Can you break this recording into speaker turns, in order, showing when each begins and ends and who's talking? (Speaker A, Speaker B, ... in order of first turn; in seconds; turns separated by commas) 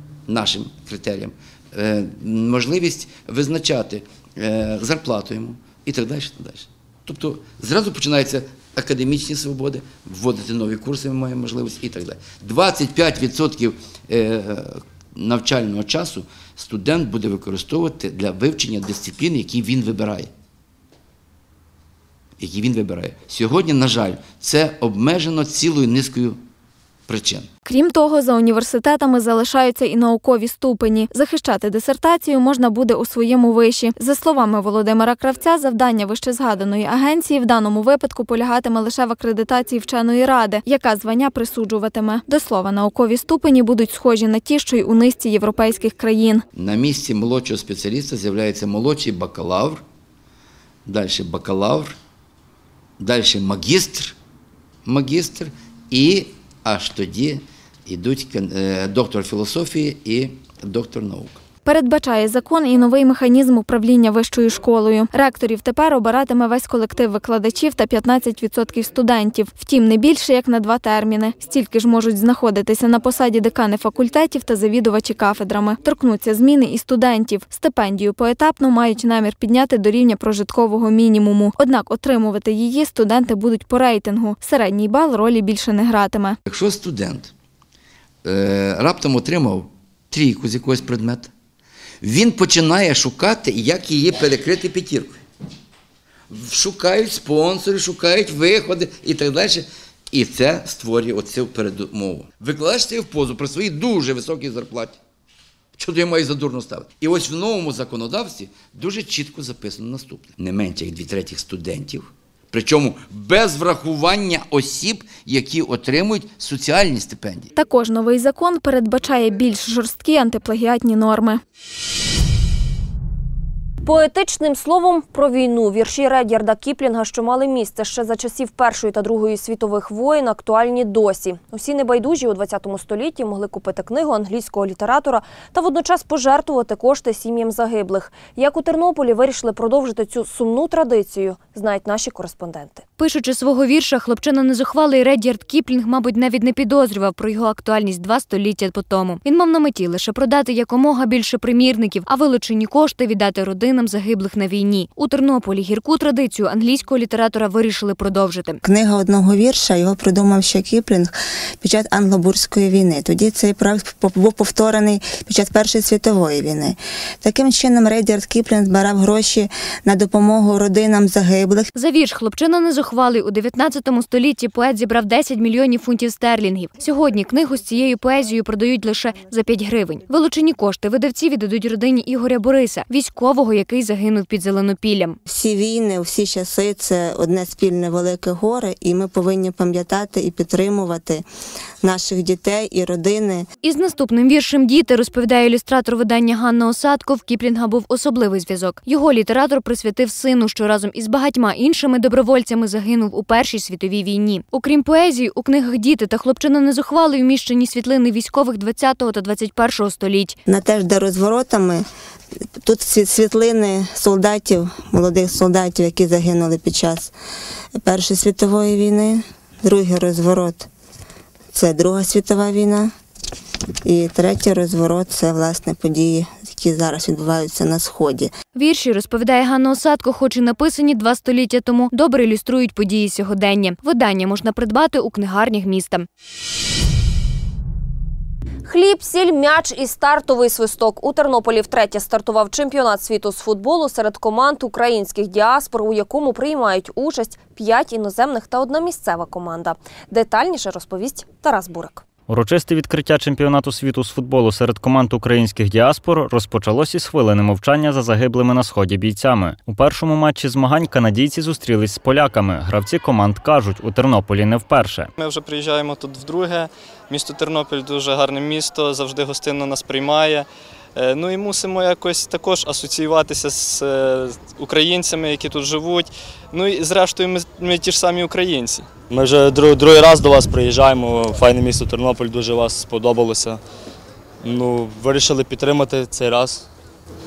Speaker A: 0.3-20.3, Speaker A: 22.4-26.4, Speaker A: 27.1-27.5, Speaker B: 27.6-46.4, Speaker A: 46.5-49.8, Speaker A: 50.9-51.9, Speaker A: 53.0-54.1, Speaker A: 54.9-61.4, Speaker B: 61.6-86.4, Speaker A: 86.5-87.3, Speaker A: 88.2-91.3, Speaker A: 92.0-95.2, Speaker A: 96.3-105.0, Speaker A: 105.8-117.5, Speaker B: 117.5-121.4, Speaker C: 123.8-142.8, Speaker D: 143.0-158.6, Speaker E: 159.1-160.9, Speaker E: 161.6-166.0, Speaker E: 167.2-168.4, Speaker D: 171.7-185.2, Speaker E: 185.3-191.2, Speaker E: 191.8-193.4, Speaker D: 193.6-210.4, Speaker E: 210.6-211.8, Speaker E: 212.7-217.0, Speaker E: 217.9-219.2, Speaker E: 219.7-220.5, Speaker E: 221.6-222.8, Speaker E: 223.9-228.2, Speaker D: 228.5-236.1, Speaker C: 238.7-252.0, Speaker F: 252.3-265.0, Speaker D: 264.7-265.1, Speaker G: 265.2-278.9, Speaker H: 279.1-283.6, Speaker H: 284.4-286.6